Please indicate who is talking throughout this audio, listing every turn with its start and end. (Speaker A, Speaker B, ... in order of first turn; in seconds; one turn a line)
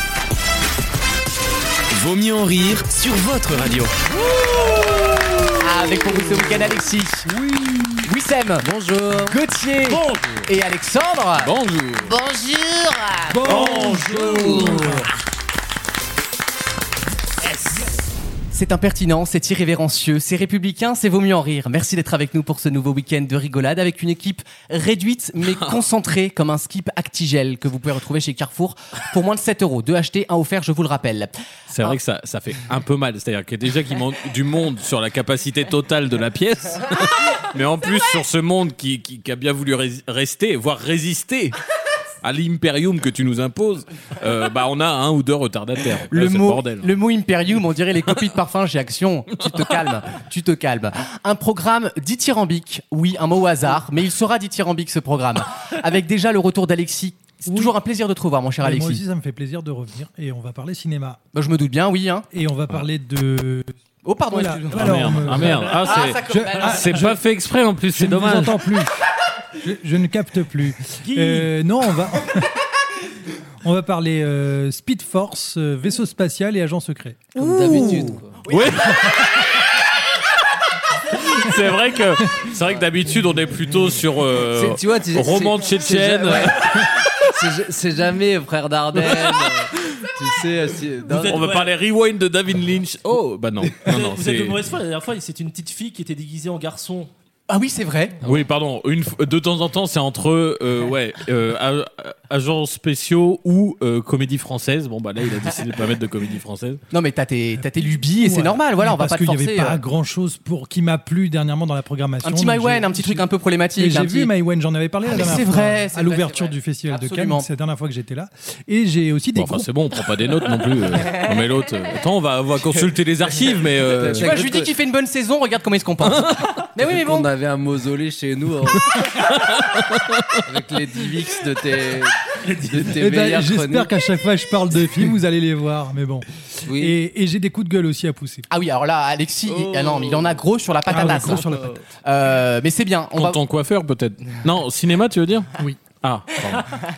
Speaker A: 1.9-3.9
Speaker B: 5.6-7.3
Speaker C: 7.5-7.9
Speaker B: 8.1-8.7
Speaker D: 8.6-9.4
Speaker B: 9.3-11.5
Speaker E: 9.9-10.4
Speaker F: 11.4-12.1
Speaker D: 12.0-15.0
Speaker C: 13.3-15.1
Speaker B: 18.5-31.3
Speaker F: 31.7-41.5
Speaker F: 42.2-46.9
Speaker B: 46.1-59.0
Speaker C: 58.6-61.2
Speaker B: 61.3-62.3
Speaker C: 62.3-63.7
Speaker B: 64.0-67.2
Speaker C: 64.3-65.8
Speaker F: 64.7-68.6
Speaker C: 66.3-67.1
Speaker C: 68.0-68.9
Speaker C: 69.6-72.5
Speaker E: 71.1-71.5
Speaker C: 73.6-77.3
Speaker D: 77.4-78.4
Speaker F: 77.5-79.5
Speaker B: 78.5-79.1
Speaker F: 81.1-86.9
Speaker D: 84.5-91.5
Speaker F: 89.0-90.0
Speaker E: 91.1-91.7
Speaker F: 91.2-94.6
Speaker E: 93.8-97.1
Speaker B: 97.5-98.2
Speaker F: 98.2-106.8
Speaker B: 106.9-109.8
Speaker C: 108.1-113.2
Speaker B: 112.2-114.3
Speaker C: 113.8-119.7
Speaker B: 115.1-117.5
Speaker F: 119.3-124.3
Speaker D: 124.0-124.7
Speaker B: 124.1-127.3
Speaker F: 126.0-126.5
Speaker D: 126.8-129.0
Speaker F: 129.2-130.3
Speaker D: 130.4-133.9
Speaker E: 132.5-132.8
Speaker C: 133.0-138.5
Speaker D: 136.7-137.0
Speaker B: 138.5-143.4
Speaker D: 139.5-140.3
Speaker C: 140.9-141.8
Speaker F: 143.2-146.7